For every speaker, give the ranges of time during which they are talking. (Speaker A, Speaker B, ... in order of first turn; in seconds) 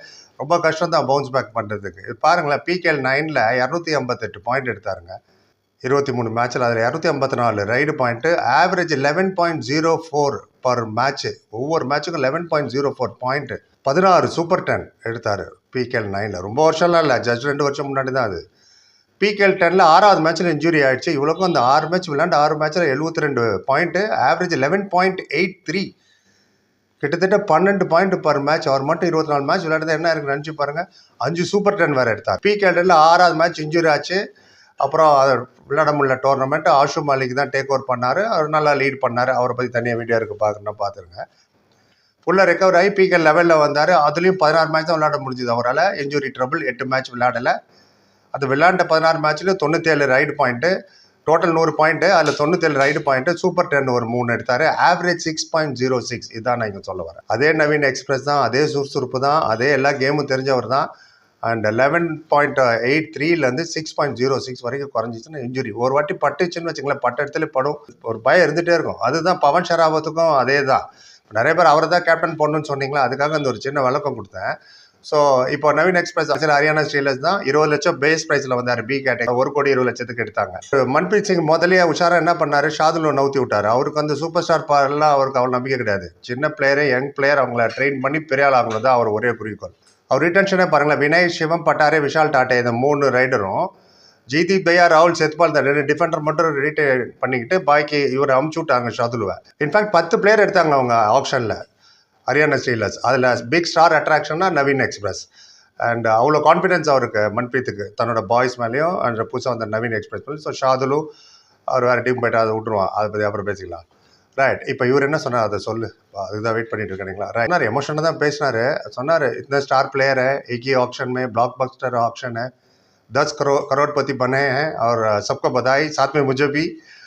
Speaker A: 0.4-5.2, 5.8-18.4, 19.2-25.9, 27.0-34.2, 34.8-41.2, 42.3-47.5, 48.3-50.7, 51.3-60.9, 61.5-74.5, 75.1-93.7, 94.3-101.6, 102.3-105.3, 105.8-111.0, 111.7-113.8, 114.4-122.5, 123.1-126.7